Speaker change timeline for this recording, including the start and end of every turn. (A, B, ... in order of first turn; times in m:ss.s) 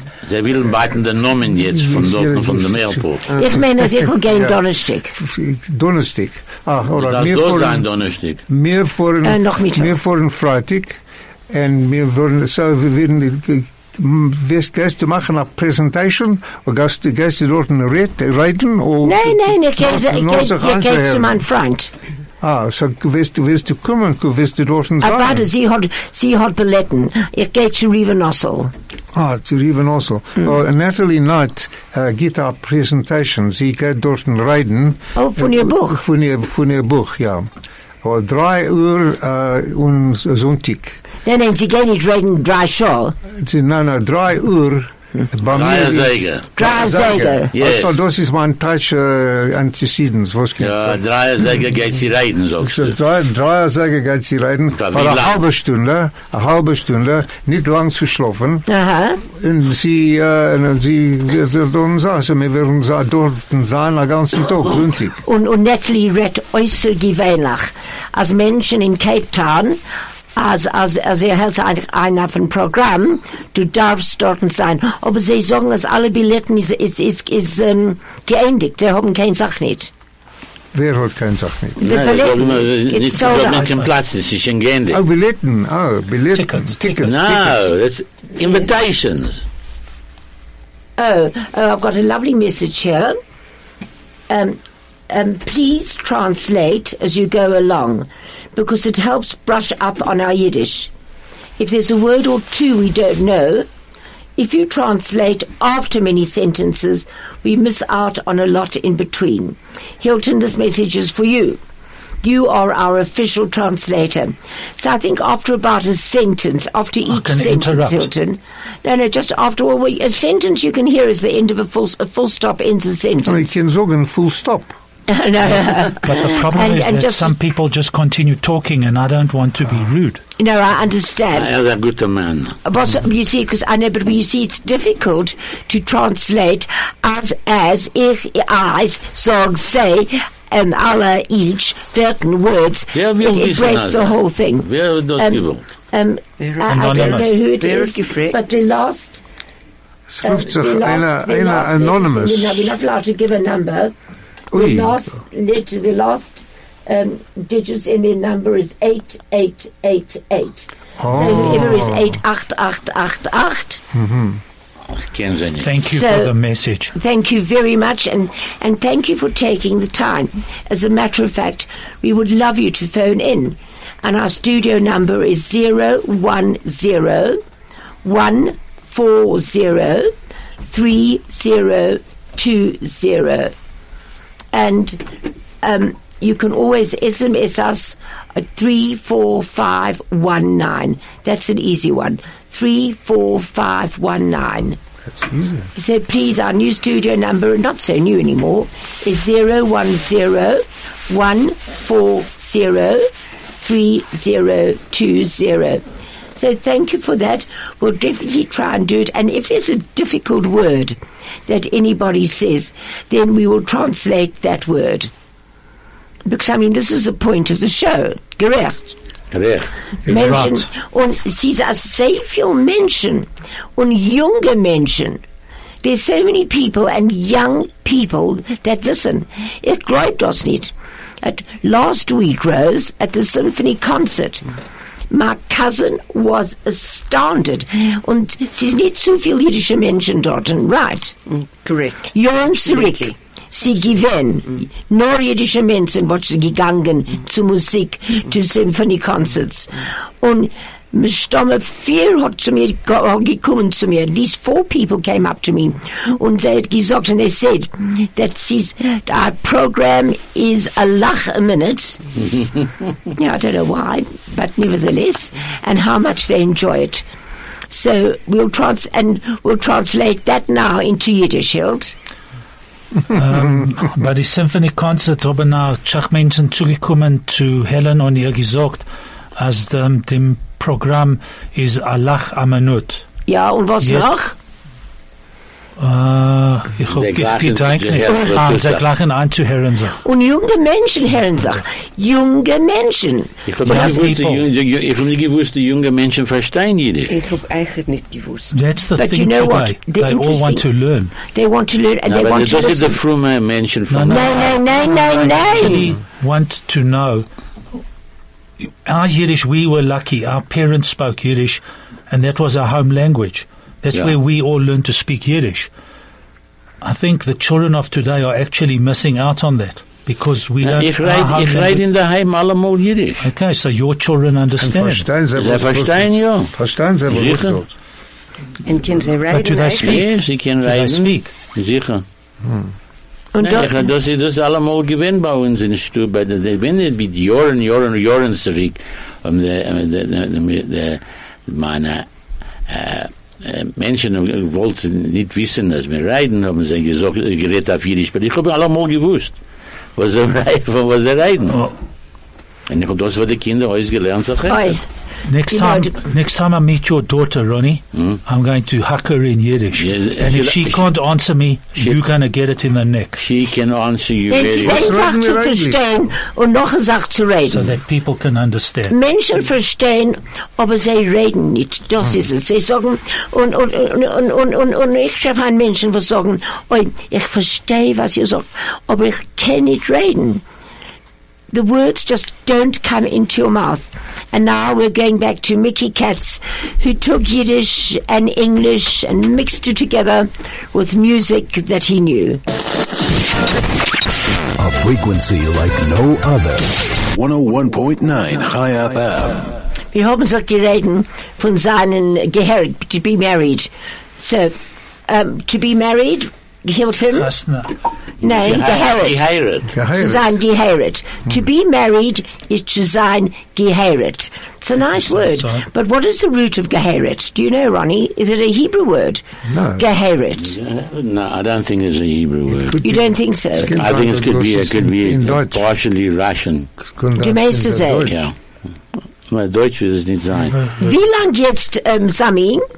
0:00.2-0:03.3 A
0:01.6-0:04.6 B
0:03.4-0:05.2 C
0:05.2-0:07.8 B
0:07.0-0:08.4 A
0:08.5-0:21.4 B
0:09.2-0:10.0 C
0:19.0-0:21.9 C
0:22.4-0:25.5 B
0:25.0-0:28.7 C
0:29.1-0:37.5 B
0:35.1-0:36.0 C
0:38.0-0:41.0 B
0:41.2-0:43.2 C
0:43.3-0:51.0 B
0:45.5-0:46.4 A
0:46.6-0:47.5 C
0:47.5-0:47.9 A
0:50.6-0:53.0 A
0:52.6-0:58.6 B
0:54.8-0:55.4 A
0:58.7-0:59.2 C
0:59.2-1:05.2 B
1:05.2-1:09.8 C
1:10.3-1:19.9 C
1:20.7-1:21.9 B
1:21.8-1:23.7 C
1:21.8-1:25.0 A
1:23.2-1:23.9 D
1:24.9-1:27.7 B
1:26.3-1:27.1 D
1:27.0-1:29.4 A
1:31.0-1:33.2 C
1:34.3-1:40.9 C
1:41.6-1:43.7 C
1:44.4-1:51.6 C
1:52.2-2:03.5 C
1:57.1-1:58.1 D
2:03.2-2:04.7 B
2:05.1-2:07.3 C
2:06.0-2:10.2 D
2:10.4-2:11.5 C
2:11.3-2:12.6 A
2:12.6-2:29.2 C
2:22.9-2:25.6 A
2:26.4-2:28.4 E
2:26.7-2:27.3 D
2:30.1-2:32.7 B
2:30.2-2:33.9 C
2:34.5-2:35.0 B
2:34.5-2:43.8 C
2:41.0-2:42.2 B
2:43.9-2:44.4 B
2:44.9-2:45.8 A
2:45.6-2:46.9 D
2:45.9-2:46.3 C
2:46.9-2:57.4 C
2:58.0-3:00.1 C
3:00.7-3:03.5 C
3:04.5-3:14.8 C
3:15.0-3:15.7 B
3:15.7-3:23.1 C
3:23.6-3:25.8 C
3:26.4-3:35.1 C
3:36.2-3:38.9 C
3:39.3-3:40.5 A
3:40.0-3:45.2 C
3:40.1-3:40.7 D
3:45.8-3:50.7 C
3:51.2-3:54.5 C
3:55.1-4:01.1 C
4:01.3-4:02.1 E
4:02.1-4:22.0 C
4:02.6-4:03.1 E
4:22.3-4:22.7 A
4:23.2-4:27.0 C
4:27.7-4:31.9 C
4:33.1-4:43.0 D
4:43.3-4:44.3 C
4:43.8-4:44.1 D
4:45.8-4:50.0 D
4:46.9-4:48.8 A
4:48.1-4:48.4 C
4:50.0-4:53.9 C
4:53.4-4:57.1 A
4:53.6-4:54.4 D
4:57.1-4:58.5 E
4:58.5-5:01.2 D
4:59.0-5:00.6 C
5:01.3-5:03.0 C
5:02.0-5:04.6 A
5:03.9-5:07.3 D
5:04.1-5:05.9 C
5:08.6-5:15.7 D
5:16.8-5:21.8 D
5:20.6-5:23.2 A
5:23.2-5:25.1 D
5:24.6-5:27.7 B
5:25.4-5:26.5 A
5:27.1-5:27.6 A
5:28.6-5:30.0 E
5:29.3-5:31.3 D
5:29.8-5:32.0 A
5:32.4-5:32.7 B
5:33.3-5:33.8 C
5:33.4-5:42.1 A
5:42.7-5:49.4 A
5:50.0-5:51.7 A
5:52.7-5:54.7 A
5:54.5-5:54.8 C
5:55.3-6:03.2 D
5:55.5-5:56.0 C
5:59.8-6:00.9 A
6:03.2-6:04.8 A
6:04.3-6:07.7 C
6:04.4-6:05.8 B
6:07.5-6:08.9 D
6:08.9-6:20.4 C
6:21.5-6:32.4 C
6:34.6-6:39.6 F
6:39.9-6:44.5 C
6:45.1-6:47.3 C
6:47.1-6:47.7 D
6:48.2-6:49.2 C
6:48.2-6:49.7 A
6:49.7-6:50.4 B
6:49.9-6:59.2 C
6:55.3-6:55.6 D
6:59.4-6:59.9 B
6:59.8-7:00.6 C
7:00.4-7:02.8 A
7:02.6-7:05.6 B
7:02.8-7:03.8 C
7:03.6-7:06.7 A
7:06.9-7:08.3 B
7:07.2-7:08.1 C
7:08.1-7:08.3 A
7:09.3-7:10.6 A
7:10.8-7:12.6 C